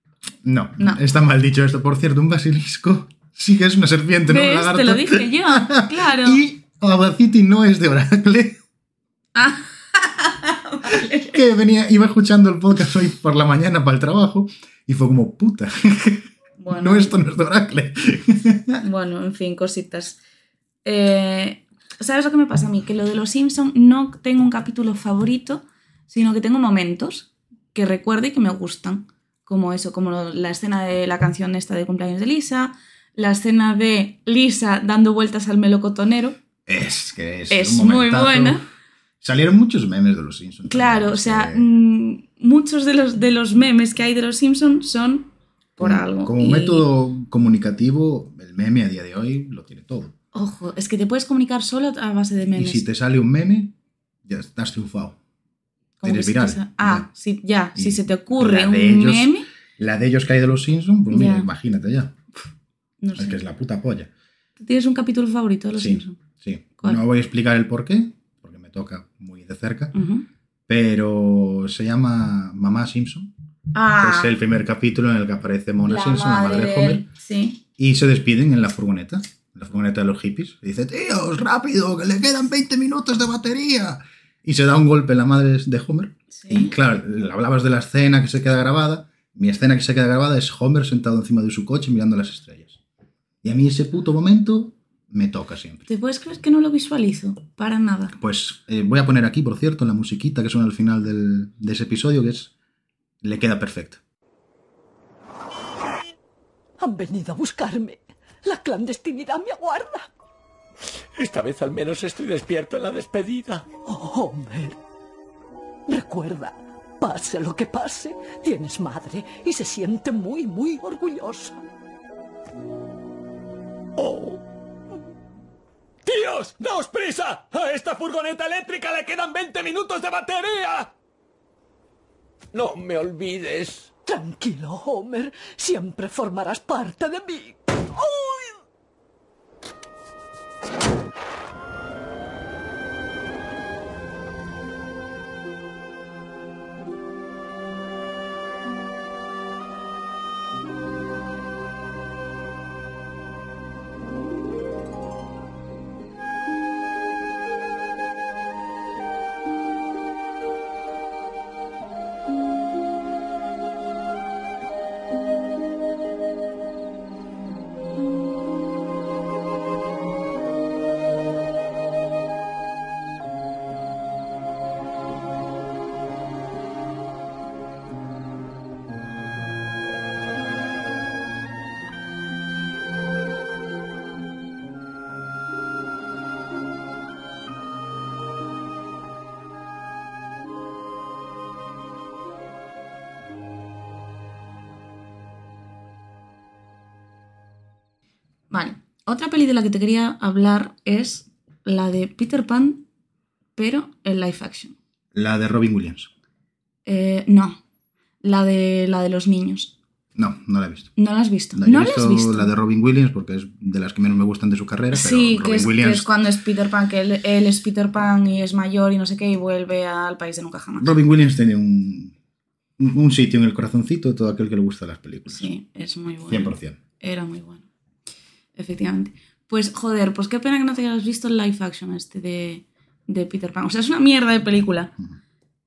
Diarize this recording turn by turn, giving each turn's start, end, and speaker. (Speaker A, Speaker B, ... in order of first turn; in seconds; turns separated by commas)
Speaker A: 0.4-8.6, Speaker B: 4.3-6.4, Speaker B: 9.3-11.4, Speaker A: 11.3-18.8, Speaker B: 16.6-17.1, Speaker B: 18.8-20.2, Speaker B: 20.8-36.4, Speaker A: 36.6-38.6, Speaker B: 37.5-38.6, Speaker A: 39.2-41.7, Speaker B: 40.7-46.9, Speaker A: 45.8-50.1, Speaker B: 50.3-52.9, Speaker A: 52.5-53.7, Speaker A: 54.2-55.2, Speaker B: 56.0-59.5, Speaker A: 56.0-57.1, Speaker A: 57.8-62.1, Speaker B: 61.1-61.5, Speaker B: 63.0-63.4, Speaker A: 63.1-64.1, Speaker B: 64.6-66.2, Speaker A: 65.8-69.9, Speaker B: 69.9-70.2, Speaker A: 70.7-73.3, Speaker B: 73.7-74.4, Speaker A: 74.0-77.0, Speaker B: 75.8-77.6, Speaker A: 77.8-92.8, Speaker B: 86.3-86.7, Speaker A: 93.4-95.9, Speaker B: 95.9-98.2, Speaker A: 98.2-102.5, Speaker A: 103.2-104.0, Speaker C: 106.8-110.1, Speaker D: 111.2-113.7, Speaker C: 113.8-114.8, Speaker C: 115.9-121.6, Speaker D: 124.0-124.4, Speaker D: 126.0-130.9, Speaker D: 132.5-133.9, Speaker C: 134.1-138.6, Speaker B: 198.5-202.8, Speaker B: 203.5-204.8, Speaker A: 205.1-206.1, Speaker B: 206.8-207.6, Speaker B: 208.2-209.7, Speaker A: 210.2-210.9, Speaker B: 211.0-212.5, Speaker A: 211.5-216.1, Speaker B: 214.9-220.9, Speaker A: 220.8-222.1, Speaker A: 222.8-225.5, Speaker B: 225.3-227.6, Speaker A: 226.3-226.8, Speaker B: 228.5-234.9